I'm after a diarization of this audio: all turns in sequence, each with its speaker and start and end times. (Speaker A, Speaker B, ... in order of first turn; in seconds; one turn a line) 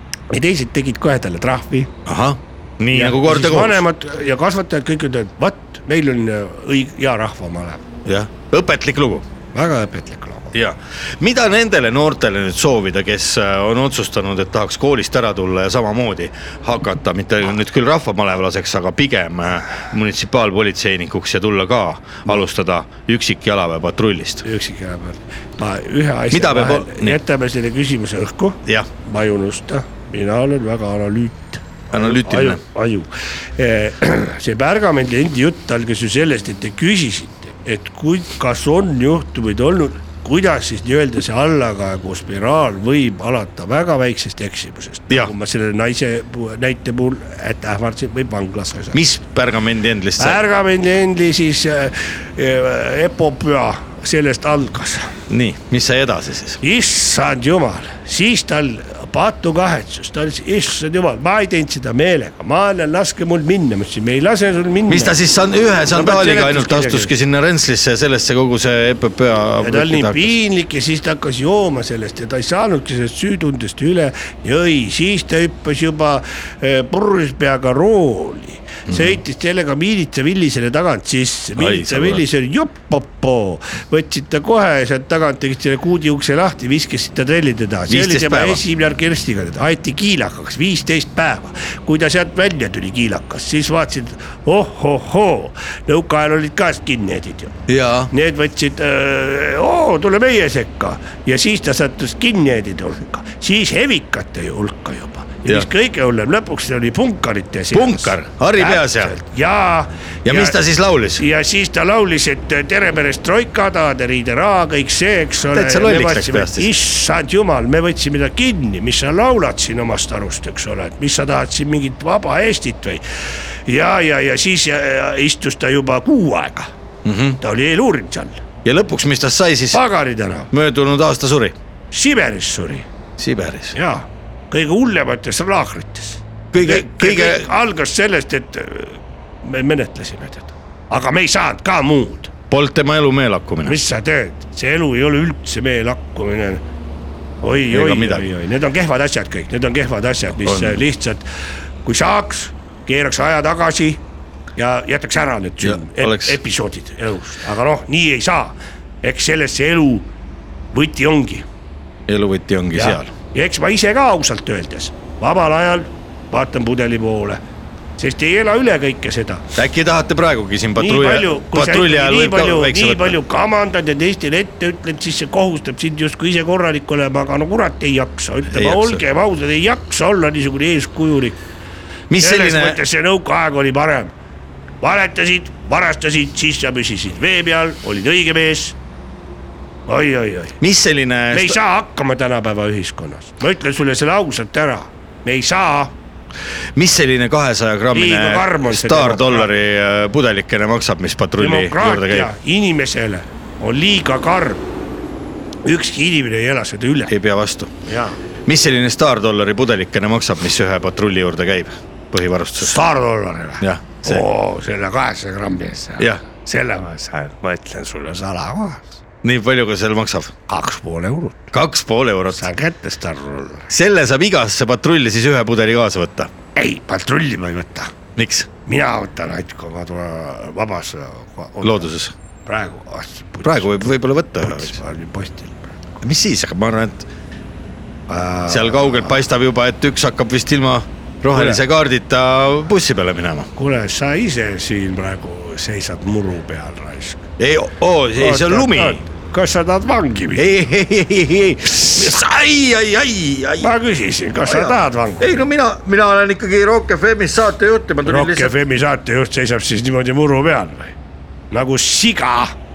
Speaker A: 0.3-1.9
Speaker B: 2.1-3.8
Speaker A: 2.9-7.8
Speaker B: 8.1-9.3
Speaker A: 9.5-10.6
Speaker B: 10.5-24.4
Speaker A: 24.4-49.0
Speaker B: 26.3-27.2
Speaker B: 31.9-32.6
Speaker B: 48.9-50.4
Speaker A: 50.2-55.1
Speaker B: 55.3-56.6
Speaker A: 56.6-65.2
Speaker B: 64.9-70.4
Speaker A: 65.9-67.1
Speaker A: 69.6-97.6
Speaker B: 78.9-79.2
Speaker B: 81.6-82.2
Speaker B: 87.9-88.6
Speaker B: 97.7-98.1
Speaker A: 98.1-110.6
Speaker B: 107.7-109.2
Speaker B: 110.2-111.2
Speaker A: 111.1-123.0
Speaker B: 115.5-116.7
Speaker A: 123.7-126.7
Speaker B: 127.0-127.4
Speaker A: 127.4-128.4
Speaker B: 128.6-129.8
Speaker A: 129.7-130.5
Speaker B: 130.5-131.6
Speaker A: 131.9-132.9
Speaker B: 133.2-133.8
Speaker A: 133.7-142.3
Speaker B: 136.5-137.4
Speaker B: 142.5-143.8
Speaker A: 143.6-146.6
Speaker A: 147.4-151.3
Speaker B: 147.7-148.3
Speaker B: 150.4-150.8
Speaker A: 151.8-154.0
Speaker A: 154.6-160.1
Speaker B: 155.6-156.4
Speaker A: 160.7-161.4
Speaker B: 162.1-163.1
Speaker A: 162.7-167.4
Speaker A: 168.0-169.4
Speaker B: 169.6-173.2
Speaker A: 170.8-181.4
Speaker B: 178.5-179.0
Speaker B: 182.1-182.8
Speaker A: 182.2-184.1
Speaker A: 184.8-188.8
Speaker A: 189.9-190.6
Speaker B: 190.6-191.6
Speaker A: 191.3-196.0
Speaker B: 196.8-202.3
Speaker A: 197.9-199.5
Speaker A: 201.4-204.6
Speaker A: 205.7-207.1
Speaker B: 207.1-207.7
Speaker A: 207.8-208.2
Speaker B: 208.5-212.8
Speaker A: 212.6-218.9
Speaker B: 213.6-214.2
Speaker B: 219.2-220.3
Speaker A: 220.5-221.5
Speaker B: 221.5-222.5
Speaker A: 222.3-223.7
Speaker B: 223.7-226.3
Speaker A: 226.6-227.9
Speaker B: 228.2-228.5
Speaker A: 228.7-231.9
Speaker B: 231.6-232.1
Speaker A: 232.5-236.0
Speaker B: 233.4-234.8
Speaker B: 236.0-237.1
Speaker A: 238.1-239.2
Speaker B: 238.5-243.5
Speaker A: 241.3-241.6
Speaker A: 243.6-247.2
Speaker B: 247.4-249.0
Speaker A: 248.2-250.5
Speaker B: 250.4-253.7
Speaker A: 253.6-255.4
Speaker B: 254.4-258.6
Speaker A: 258.0-261.0
Speaker A: 261.5-262.6